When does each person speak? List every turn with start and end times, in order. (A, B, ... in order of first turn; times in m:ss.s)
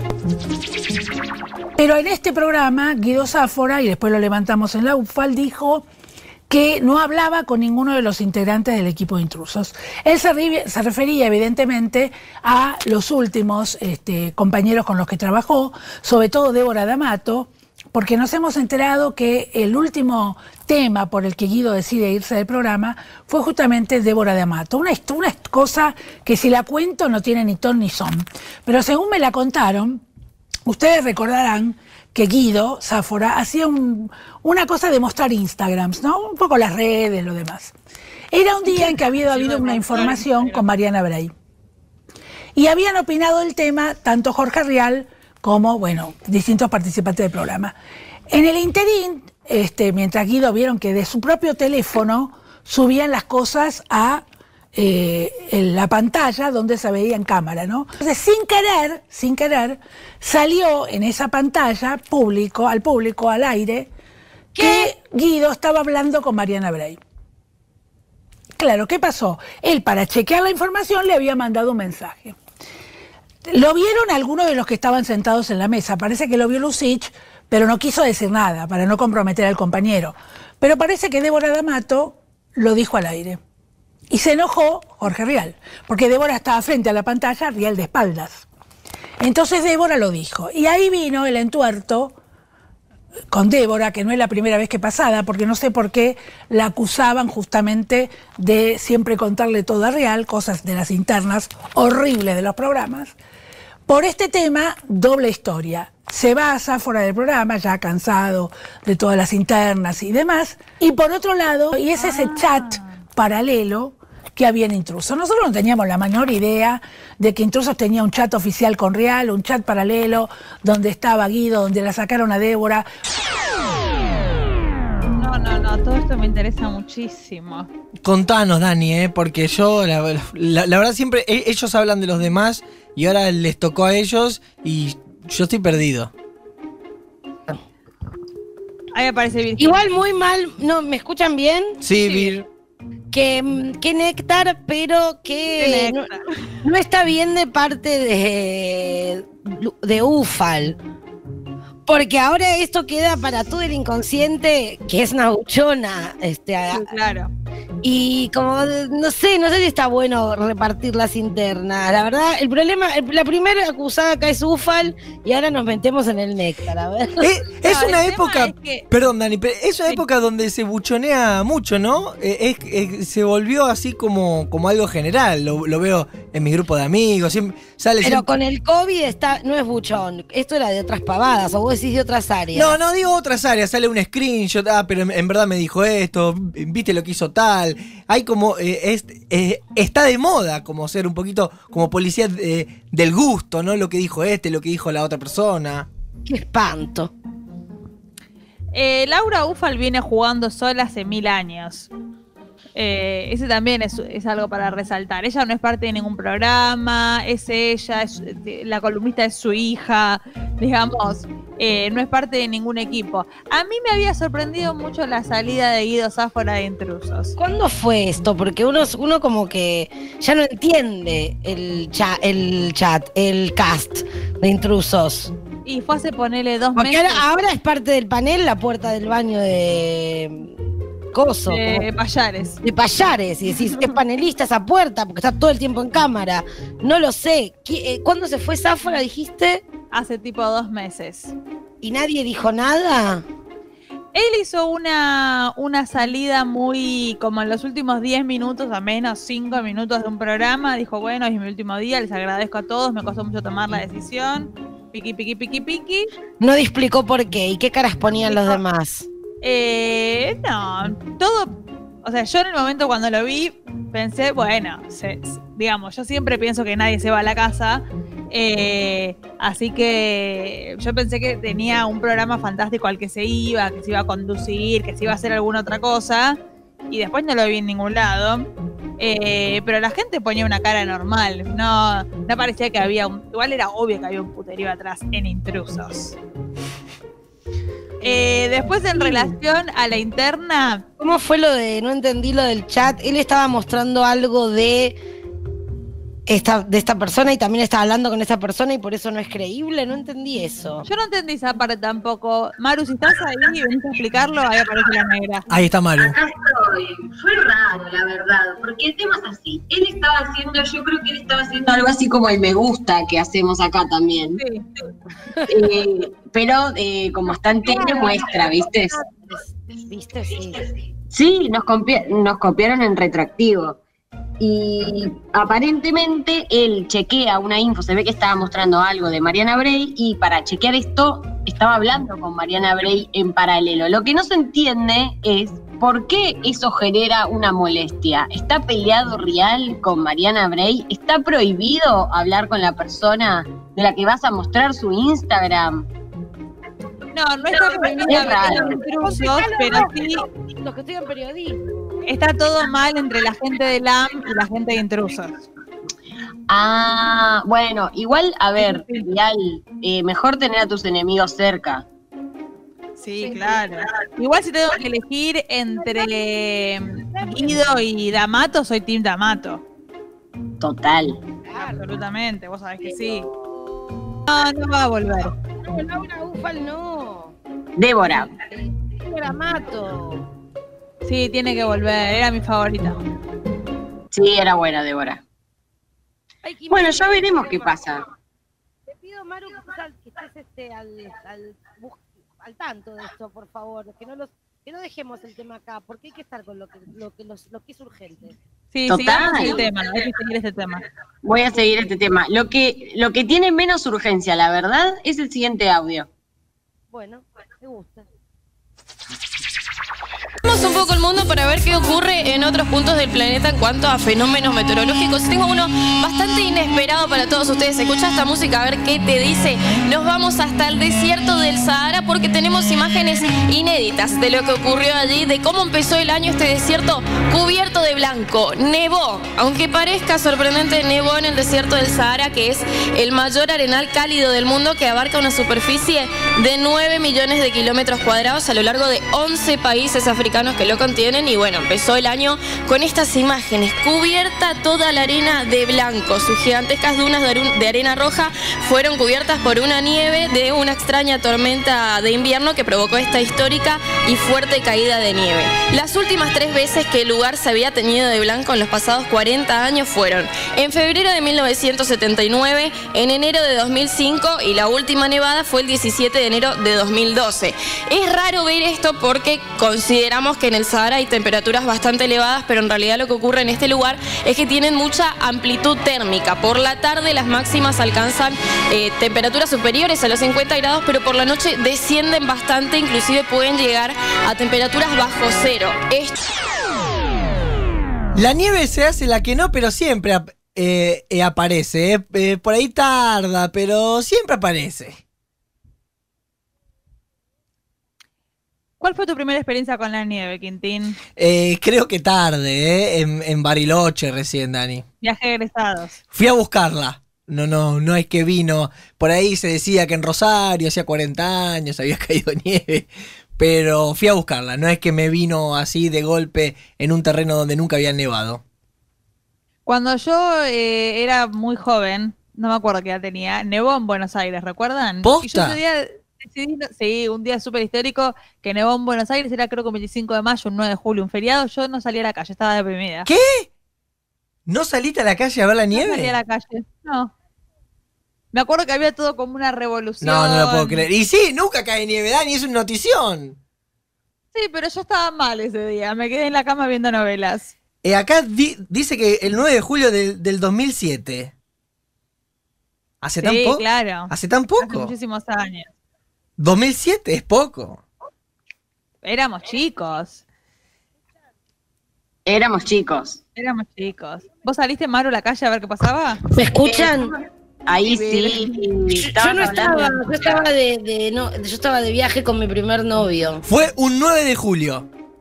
0:01.8-0:05.8 A
0:06.5-0:30.0 A
0:30.6-0:37.7 A
0:38.3-0:41.3 A
0:38.7-0:40.6 B
0:42.5-0:47.7 A
0:48.3-0:54.2 A
0:54.7-1:03.9 A
1:04.6-1:04.9 C
1:04.6-1:07.0 A
1:08.6-1:12.4 A
1:13.5-1:23.4 A
1:24.1-1:28.4 A
1:29.2-1:32.1 A
1:33.3-1:43.1 A
1:43.9-2:02.9 A
1:51.9-1:52.9 B
2:05.1-2:07.7 B
2:08.0-2:16.1 D
2:18.9-2:19.8 B
2:19.6-2:21.8 C
2:21.8-2:22.4 D
2:22.0-2:22.3 B
2:23.1-2:26.1 C
2:25.6-2:26.3 B
2:26.6-2:30.8 C
2:31.8-2:36.9 C
2:36.7-2:37.3 B
2:37.8-2:47.2 C
2:47.2-2:58.3 D
2:47.6-2:48.8 B
2:58.0-3:02.8 C
3:02.5-3:15.9 D
3:16.3-3:17.1 C
3:18.7-3:21.9 B
3:22.8-3:37.3 B
3:37.4-3:45.3 C
3:45.6-3:47.2 B
3:46.8-3:50.5 C
3:51.1-3:51.8 C
3:51.5-3:52.6 B
3:52.6-3:59.6 C
3:59.9-4:01.3 B
4:01.8-4:03.2 C
4:04.1-4:16.1 B
4:16.4-4:19.1 C
4:18.1-4:18.6 B
4:19.4-4:36.4 B
4:36.9-4:46.2 B
4:48.0-4:49.3 C
4:48.0-4:50.8 B
4:51.0-4:55.0 C
4:56.3-5:00.8 C
5:00.8-5:05.5 B
5:05.5-5:06.1 D
5:06.0-5:14.4 E
5:14.4-5:14.7 B
5:15.5-5:19.0 E
5:17.7-5:20.6 C
5:21.1-5:23.8 E
5:24.4-5:45.9 E
5:47.1-5:50.2 B
5:47.7-5:51.7 C
5:47.7-5:48.8 E
5:52.0-5:55.4 B
5:56.5-6:01.8 E
5:58.6-5:59.0 B
6:03.0-6:09.6 B
6:03.2-6:03.7 C
6:05.8-6:06.1 C
6:07.1-6:07.6 C
6:10.6-6:11.2 E
6:11.5-6:11.8 C
6:11.6-6:13.3 B
6:14.3-6:15.3 B
6:15.5-6:17.3 C
6:17.8-6:18.3 E
6:18.5-6:20.2 C
6:21.0-6:23.0 B
6:24.1-6:25.2 E
6:26.4-6:27.8 C
6:26.7-6:28.0 E
6:28.9-6:38.4 C
6:38.7-6:40.8 B
6:38.9-6:39.6 E
6:41.2-6:46.1 E
6:46.9-6:48.0 C
6:50.4-8:06.2 F
8:08.1-8:15.0 D
8:18.8-8:21.0 B
8:21.2-8:24.8 D
8:25.0-8:26.0 B
8:26.1-8:38.4 D
8:39.6-8:53.1 B
8:45.0-8:45.6 D
8:53.0-8:53.5 D
8:54.4-8:56.1 D
8:55.7-8:57.1 B
8:58.3-9:00.8 B
9:00.0-9:03.4 D
9:04.3-9:07.5 B
9:07.8-9:11.3 D
9:13.0-9:14.9 D
9:13.2-9:15.7 B
9:16.4-9:17.8 D
9:19.0-9:20.2 B
9:22.2-9:23.2 E
9:23.3-9:26.2 B
9:26.3-9:27.1 C
9:26.6-9:27.0 E
9:27.6-9:30.5 E
9:27.8-9:28.7 B
9:29.0-9:33.4 C
9:29.4-9:30.0 B
9:33.4-9:34.9 D